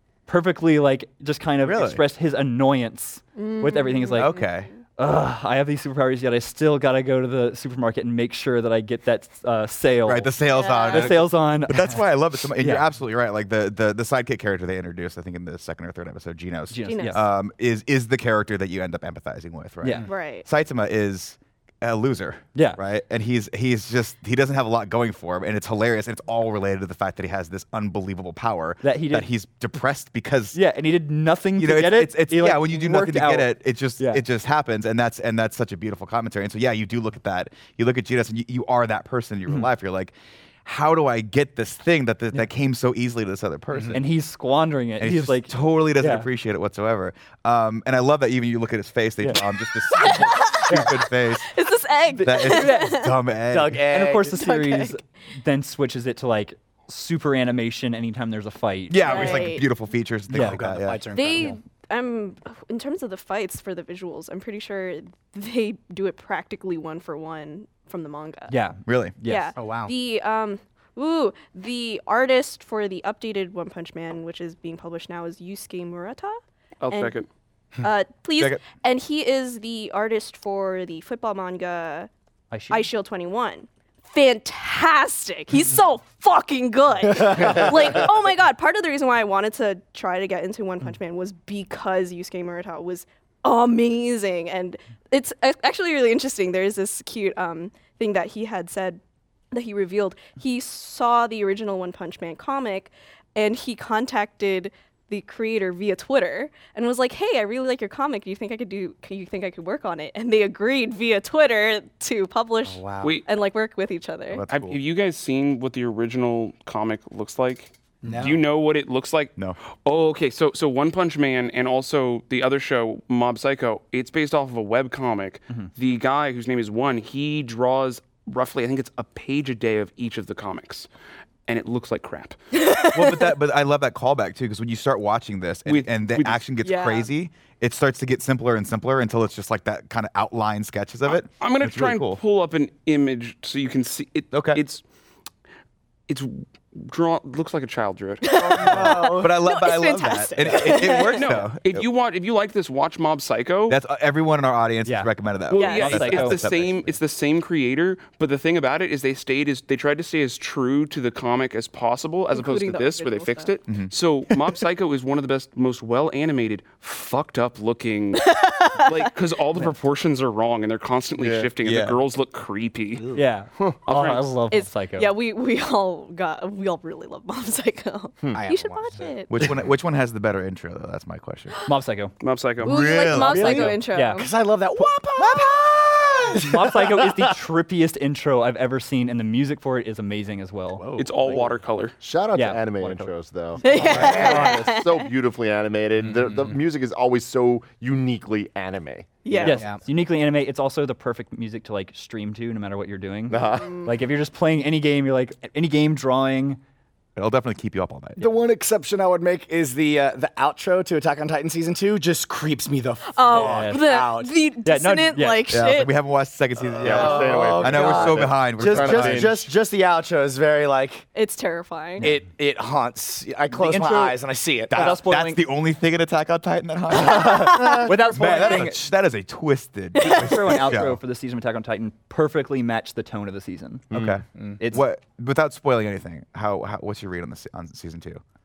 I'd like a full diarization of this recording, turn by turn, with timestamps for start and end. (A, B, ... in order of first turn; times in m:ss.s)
0:00.3-0:04.3 A
0:01.6-0:02.0 B
0:03.4-0:04.8 C
0:04.2-0:04.7 B
0:05.0-0:12.0 A
0:10.0-0:30.6 B
0:10.5-0:11.2 C
0:12.6-0:12.9 A
0:16.7-0:17.2 A
0:16.8-0:17.3 C
0:19.8-0:20.1 A
0:20.0-0:20.5 C
0:22.6-0:22.8 A
0:28.8-0:29.3 A
0:30.5-0:34.2 A
0:31.6-0:44.1 B
0:43.9-0:46.3 A
0:45.0-0:51.5 B
0:49.9-0:53.2 C
0:52.2-0:53.0 A
0:52.2-0:53.9 B
0:53.5-0:54.4 D
0:53.7-0:59.5 A
0:54.3-0:55.0 C
0:58.9-1:01.1 B
0:59.0-0:59.7 C
1:00.3-1:00.6 A
1:00.3-1:01.6 D
1:01.1-1:08.5 C
1:08.5-1:09.5 A
1:08.8-1:09.2 B
1:09.2-1:16.4 C
1:09.6-1:09.9 D
1:16.8-1:17.3 E
1:16.9-1:17.2 C
1:17.8-1:22.1 C
1:18.4-1:18.6 B
1:22.5-1:22.9 A
1:22.7-1:39.0 C
1:27.3-1:27.6 D
1:39.5-1:54.4 C
1:52.7-1:53.1 B
1:53.0-1:53.3 E
1:54.3-1:54.8 B
1:54.5-2:10.9 E
1:58.0-1:58.4 D
2:11.5-2:12.4 E
2:12.5-2:13.4 C
2:12.9-2:22.2 B
2:15.7-2:16.4 E
2:16.6-2:17.1 C
2:21.1-2:24.8 E
2:24.3-2:24.6 B
2:26.1-2:28.9 E
2:28.2-2:31.3 C
2:28.5-2:29.4 D
2:28.6-2:31.9 B
2:31.1-2:33.8 E
2:33.7-2:37.0 B
2:34.8-2:35.1 A
2:35.5-2:53.1 E
2:35.5-2:36.0 C
2:35.7-2:36.4 A
2:42.3-2:43.6 C
2:43.7-2:43.9 B
2:48.2-2:49.1 C
2:51.2-2:51.5 F
2:51.6-2:52.0 B
2:53.0-2:53.3 D
2:53.2-2:55.1 A
2:53.9-2:54.3 E
2:54.5-2:59.5 C
2:58.3-2:59.7 D
2:59.3-3:01.6 B
3:01.7-3:02.1 A
3:02.2-3:02.8 E
3:02.6-3:03.8 B
3:02.6-3:04.3 C
3:03.2-3:04.2 A
3:03.2-3:07.1 D
3:05.2-3:05.5 B
3:06.4-3:11.4 A
3:10.7-3:11.4 D
3:11.0-3:12.0 E
3:12.0-3:19.5 F
3:12.3-3:13.1 A
3:13.6-3:15.0 C
3:13.7-3:14.8 D
3:16.0-3:16.6 D
3:19.2-3:19.7 C
3:19.4-3:26.6 A
3:19.5-3:19.8 D
3:23.3-3:23.9 F
3:23.5-3:23.9 C
3:27.2-3:28.3 B
3:28.2-3:34.4 D
3:33.1-3:36.0 C
3:33.3-3:33.8 A
3:34.6-3:35.4 A
3:35.5-3:39.4 B
3:36.7-3:41.1 D
3:36.8-3:39.4 F
3:41.1-3:42.1 C
3:42.0-3:45.0 D
3:43.6-3:44.2 A
3:44.7-3:51.0 B
3:44.7-3:45.4 A
3:46.9-3:48.8 A
3:47.6-3:47.9 C
3:50.0-3:50.6 C
3:50.0-3:53.9 A
3:53.9-3:58.2 B
3:54.3-3:54.6 D
3:54.6-3:54.8 A